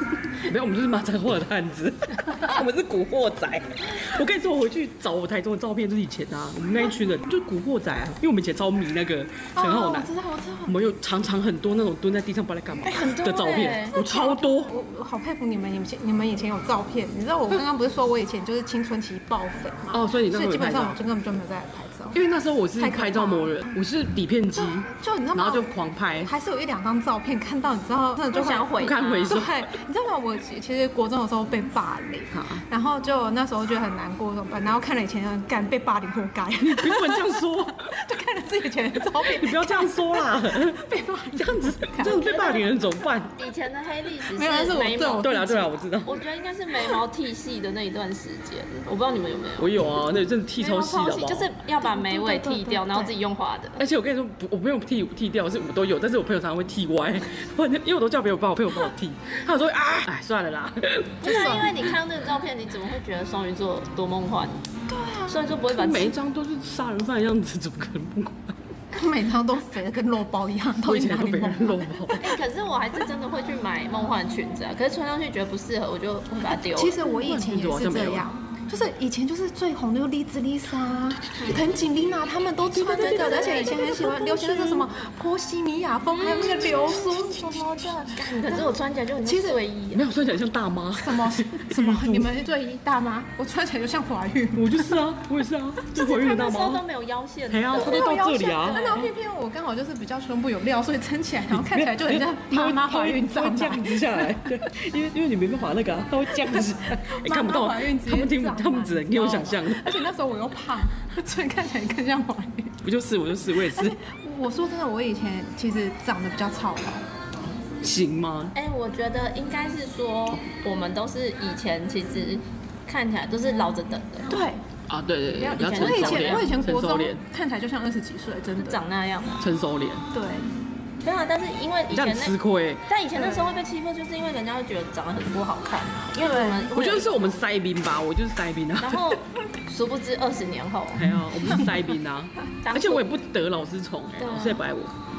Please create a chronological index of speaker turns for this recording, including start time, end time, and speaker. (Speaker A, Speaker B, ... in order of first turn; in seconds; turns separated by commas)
Speaker A: 0.4-10.1, Speaker B: 9.6-10.8, Speaker A: 10.7-14.7, Speaker C: 12.8-14.0, Speaker B: 13.9-22.2, Speaker A: 19.9-21.0, Speaker A: 22.1-26.3, Speaker B: 22.8-23.8, Speaker B: 24.6-25.7, Speaker B: 26.2-28.7, Speaker C: 28.3-29.4, Speaker A: 28.8-29.7, Speaker B: 29.2-42.6, Speaker A: 32.3-32.6, Speaker A: 36.6-37.9, Speaker A: 39.2-43.3, Speaker C: 42.0-42.6, Speaker C: 43.4-45.3, Speaker B: 44.3-45.7, Speaker A: 45.2-46.2, Speaker C: 46.0-49.8, Speaker A: 49.6-51.5, Speaker C: 50.6-53.8, Speaker B: 51.8-53.1, Speaker A: 53.8-61.6, Speaker C: 61.2-64.6, Speaker B: 61.2-61.8, Speaker B: 64.9-65.4, Speaker C: 65.3-66.2, Speaker A: 65.7-68.6, Speaker B: 68.9-72.1, Speaker A: 70.8-72.3, Speaker C: 72.2-77.1, Speaker B: 76.4-89.6, Speaker A: 77.1-78.3, Speaker C: 82.8-84.1, Speaker A: 83.8-84.9, Speaker C: 86.1-90.1, Speaker A: 86.3-87.2, Speaker A: 89.9-92.3, Speaker B: 91.0-95.0, Speaker A: 94.5-96.8, Speaker C: 95.9-98.2, Speaker A: 97.5-99.1, Speaker B: 97.7-104.4, Speaker A: 101.5-110.0, Speaker B: 106.4-112.8, Speaker A: 112.8-114.0, Speaker B: 113.7-117.0, Speaker A: 117.8-118.5, Speaker C: 118.5-124.3, Speaker B: 124.3-124.6, Speaker A: 124.9-127.2, Speaker C: 125.3-126.5, Speaker B: 125.4-128.8, Speaker C: 128.6-129.5, Speaker A: 129.4-130.1, Speaker B: 130.1-130.5, Speaker C: 131.0-132.4, Speaker A: 131.9-132.9, Speaker C: 132.9-137.4, Speaker B: 136.2-136.7, Speaker A: 136.7-139.2, Speaker C: 138.8-141.1, Speaker A: 140.9-144.9, Speaker C: 142.6-143.1, Speaker C: 144.2-144.6